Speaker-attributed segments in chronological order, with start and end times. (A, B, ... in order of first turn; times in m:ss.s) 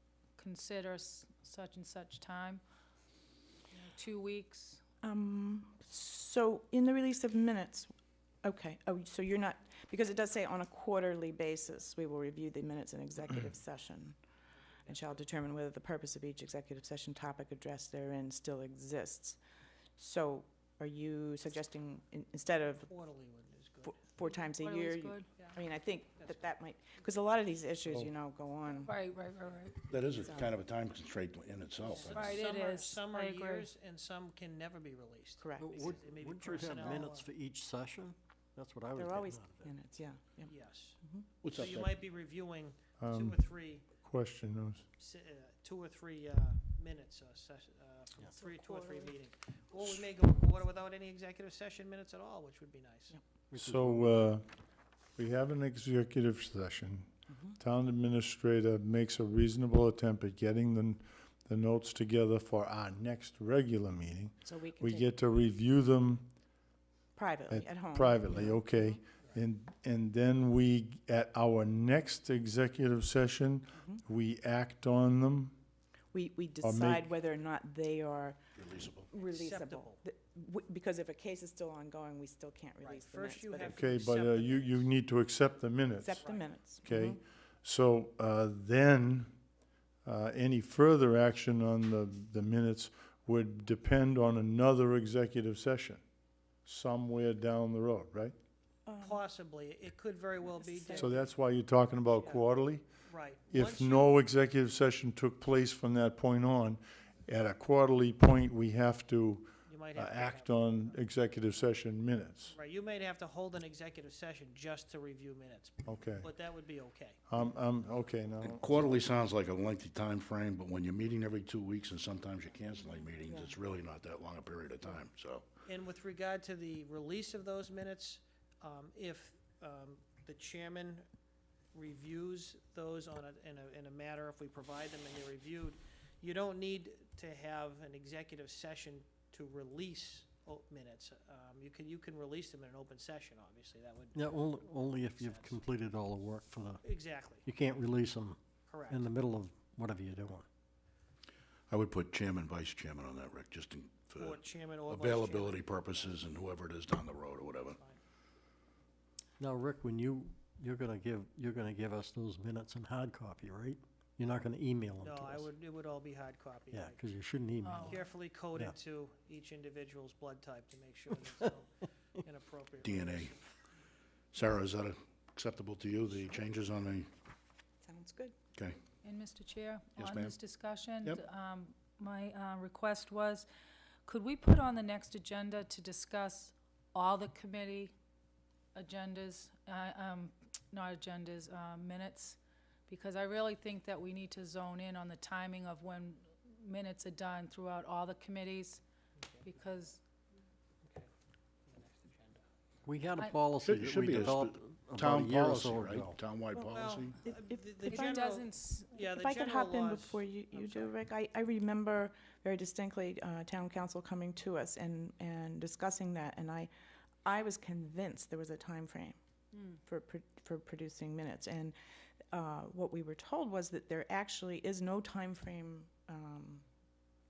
0:00.4-0:02.6 A
0:03.8-0:04.8 A
0:05.0-0:07.9 B
0:08.4-0:14.2 B
0:14.8-0:15.2 C
0:14.9-0:19.4 B
0:20.0-0:22.9 B
0:22.8-0:24.0 C
0:23.8-0:29.0 B
0:24.2-0:25.4 A
0:26.2-0:26.5 C
0:28.8-0:29.8 A
0:29.9-0:32.4 D
0:30.1-0:30.5 B
0:31.9-0:37.3 C
0:32.1-0:33.7 A
0:35.4-0:36.0 B
0:35.6-0:39.7 E
0:38.9-0:41.3 B
0:40.4-0:41.0 C
0:41.4-0:41.9 D
0:41.5-0:43.8 C
0:43.0-0:43.4 F
0:43.9-0:44.9 F
0:45.0-0:53.2 C
0:48.3-0:49.1 B
0:53.5-0:54.1 E
0:53.6-0:54.5 F
0:55.2-1:06.3 F
0:57.3-0:57.6 B
1:04.4-1:05.1 B
1:07.2-1:09.0 B
1:07.5-1:15.6 F
1:13.8-1:14.0 B
1:16.1-1:18.4 B
1:16.6-1:17.0 F
1:18.6-1:19.1 D
1:19.0-1:23.8 B
1:19.2-1:20.0 C
1:22.8-1:24.9 C
1:23.7-1:26.2 F
1:26.0-1:27.2 B
1:26.8-1:29.3 F
1:30.0-1:36.0 F
1:36.6-1:38.4 F
1:38.9-1:39.2 B
1:39.0-1:41.2 C
1:40.4-1:41.3 B
1:41.0-1:42.8 F
1:42.2-1:42.5 C
1:43.0-1:44.1 C
1:43.5-1:52.6 F
1:49.7-1:51.0 C
1:52.5-1:57.2 C
1:55.9-1:56.3 F
1:57.3-1:59.0 F
1:58.4-2:05.4 D
2:03.3-2:03.5 B
2:05.6-2:11.1 C
2:11.7-2:25.6 C
2:24.1-2:26.9 E
2:26.8-2:27.5 C
2:27.4-2:30.5 E
2:28.7-2:29.1 C
2:31.7-2:37.8 D
2:34.2-2:36.2 C
2:39.4-2:45.5 E
2:45.0-2:47.0 C
2:46.7-2:48.7 E
2:47.6-2:48.0 A
2:47.8-2:53.4 C
2:52.8-2:53.4 D
2:54.3-2:57.1 D
2:57.8-2:58.4 B
2:59.0-3:03.5 A
3:00.0-3:00.4 D
3:04.0-3:07.9 A
3:08.8-3:18.8 A
3:19.4-3:20.0 A
3:20.8-3:21.1 C
3:21.7-3:22.4 C
3:22.8-3:26.2 E
3:23.6-3:27.2 D
3:26.6-3:30.9 C
3:27.2-3:28.2 B
3:27.9-3:29.0 A
3:29.0-3:36.7 B
3:37.2-3:41.8 B
3:42.3-3:46.6 B